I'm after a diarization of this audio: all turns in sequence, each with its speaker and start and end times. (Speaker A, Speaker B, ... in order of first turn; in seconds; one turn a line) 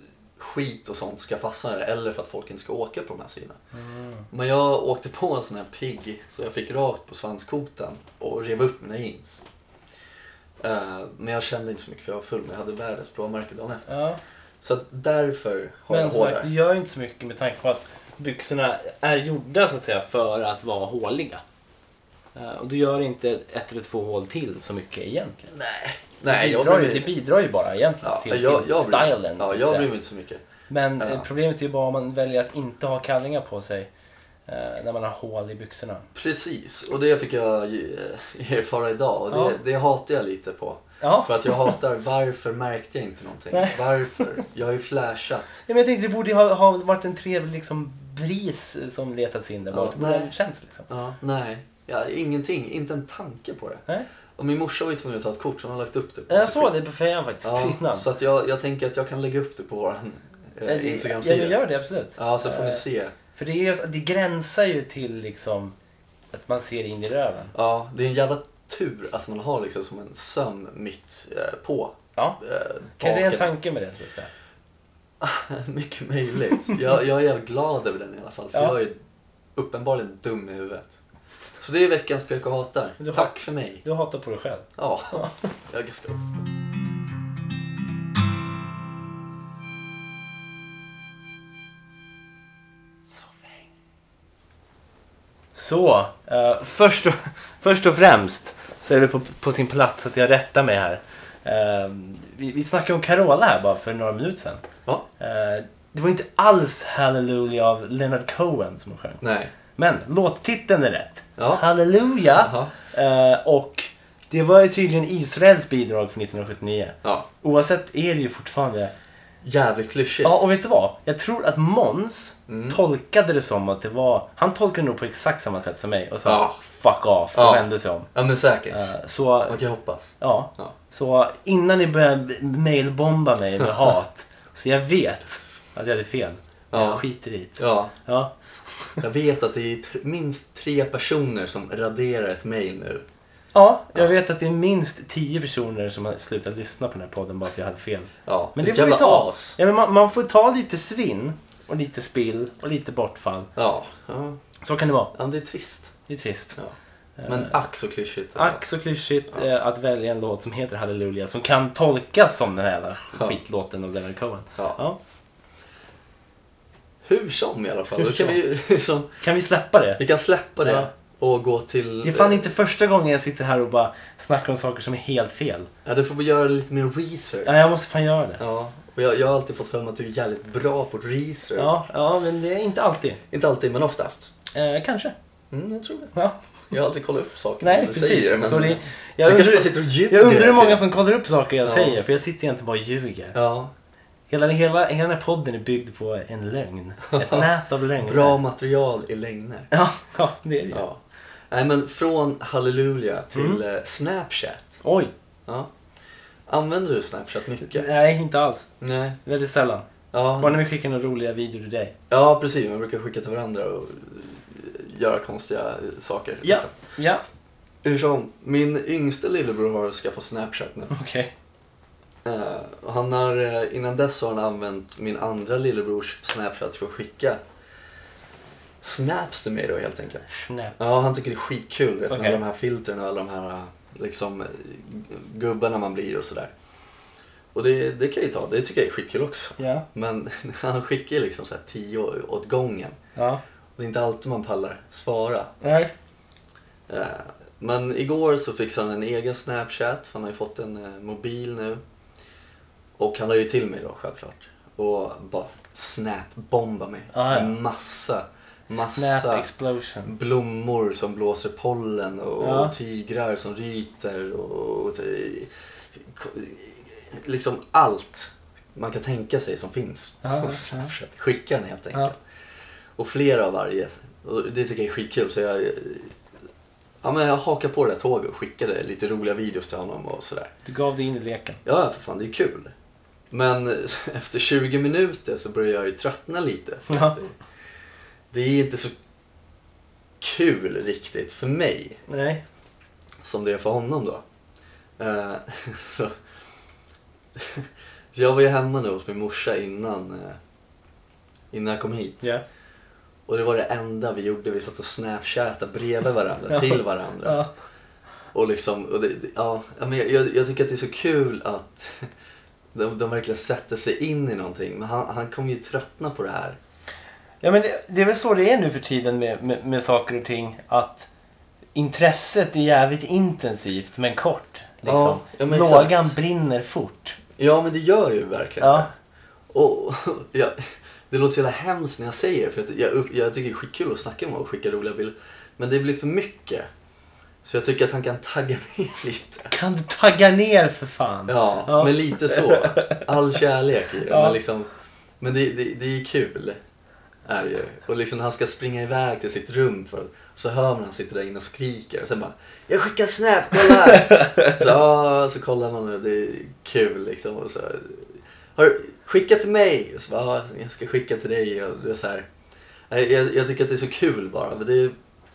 Speaker A: 0.4-3.6
Speaker B: 3.7-4.3
Speaker A: 4.3-9.4
Speaker A: 10.6-13.9
Speaker B: 13.9-14.2
Speaker A: 14.6-16.5
Speaker B: 15.9-21.4
Speaker B: 22.3-25.5
Speaker A: 25.5-27.1
Speaker B: 26.2-29.9
Speaker A: 28.0-30.4
Speaker B: 30.7-33.9
Speaker A: 31.0-31.3
Speaker B: 34.5-36.0
Speaker A: 36.1-45.6
Speaker B: 39.3-39.6
Speaker B: 41.0-41.7
Speaker B: 43.5-44.2
Speaker B: 45.7-50.9
Speaker A: 49.7-50.3
Speaker A: 50.9-53.9
Speaker A: 54.4-56.7
Speaker B: 56.3-58.0
Speaker A: 57.4-61.6
Speaker B: 60.6-65.7
Speaker A: 62.1-63.1
Speaker B: 66.3-67.5
Speaker A: 67.5-73.5
Speaker B: 73.0-74.3
Speaker A: 75.2-79.0
Speaker A: 79.5-81.0
Speaker A: 81.6-83.8
Speaker B: 83.0-85.3
Speaker A: 84.8-86.4
Speaker B: 95.5-104.6
Speaker B: 105.2-109.2
Speaker A: 109.2-109.5
Speaker B: 109.7-118.9
Speaker A: 111.4-111.6
Speaker A: 112.3-112.7
Speaker A: 119.4-120.4
Speaker B: 120.2-128.1
Speaker A: 122.5-122.8
Speaker A: 126.2-126.6
Speaker A: 127.3-128.9
Speaker B: 128.7-129.6
Speaker A: 129.4-130.7
Speaker B: 130.2-139.0
Speaker A: 136.7-137.0
Speaker A: 137.6-137.9
Speaker A: 139.0-143.0
Speaker B: 143.5-153.5
Speaker A: 148.2-149.6
Speaker A: 153.6-154.4
Speaker B: 154.6-155.1
Speaker A: 155.1-155.9
Speaker B: 156.1-156.6
Speaker B: 157.2-157.5
Speaker A: 157.2-158.6
Speaker B: 158.3-165.0
Speaker A: 167.0-169.2
Speaker B: 168.0-168.4
Speaker B: 169.2-170.0
Speaker A: 170.0-172.5
Speaker B: 170.6-170.9
Speaker B: 172.0-175.7
Speaker A: 175.8-177.6
Speaker B: 177.4-178.4
Speaker A: 178.4-181.7
Speaker B: 181.6-183.2
Speaker A: 183.3-184.3
Speaker B: 184.5-185.1
Speaker A: 185.5-186.1
Speaker A: 186.7-190.8
Speaker B: 187.6-193.3
Speaker A: 191.6-192.0
Speaker A: 193.3-193.7
Speaker B: 194.3-198.4
Speaker A: 197.1-197.5
Speaker A: 198.0-199.7
Speaker B: 199.7-200.8
Speaker A: 200.7-204.8
Speaker B: 203.3-203.6
Speaker B: 204.8-205.1
Speaker A: 206.5-207.9
Speaker B: 207.7-208.7
Speaker A: 208.8-209.2
Speaker B: 209.2-209.9
Speaker A: 210.1-210.6
Speaker B: 210.4-211.9
Speaker A: 212.1-216.8
Speaker B: 216.4-217.2
Speaker A: 217.8-220.9
Speaker B: 220.9-221.3
Speaker A: 222.2-227.4
Speaker A: 228.8-236.5
Speaker B: 230.3-231.0
Speaker B: 232.1-232.4
Speaker A: 237.5-243.0
Speaker B: 239.6-239.8
Speaker B: 243.2-243.4
Speaker A: 243.8-245.5
Speaker B: 245.6-245.9
Speaker A: 246.9-251.8
Speaker A: 253.0-259.5
Speaker B: 257.1-257.6
Speaker B: 258.7-260.1
Speaker A: 260.0-272.2
Speaker B: 262.4-262.7
Speaker B: 270.2-270.9
Speaker A: 273.0-276.1
Speaker A: 277.0-280.5
Speaker B: 280.6-281.6
Speaker A: 281.6-282.7
Speaker A: 283.3-287.4
Speaker B: 286.9-287.2
Speaker A: 288.3-288.9
Speaker A: 290.2-292.0
Speaker B: 292.1-292.4
Speaker A: 293.2-294.2
Speaker A: 295.0-296.1
Speaker A: 297.4-300.4
Speaker A: 301.5-302.2
Speaker A: 303.3-307.4
Speaker B: 306.5-307.5
Speaker A: 308.3-312.1
Speaker A: 312.7-316.6
Speaker B: 317.4-321.1
Speaker B: 321.7-327.2
Speaker A: 324.8-326.1
Speaker A: 327.4-328.9
Speaker B: 328.6-328.9
Speaker A: 329.5-336.7
Speaker A: 337.4-339.5
Speaker B: 339.5-343.1
Speaker A: 341.3-344.7
Speaker B: 344.1-344.4
Speaker A: 345.2-346.6
Speaker A: 347.2-362.2
Speaker B: 353.7-354.6
Speaker A: 362.9-364.9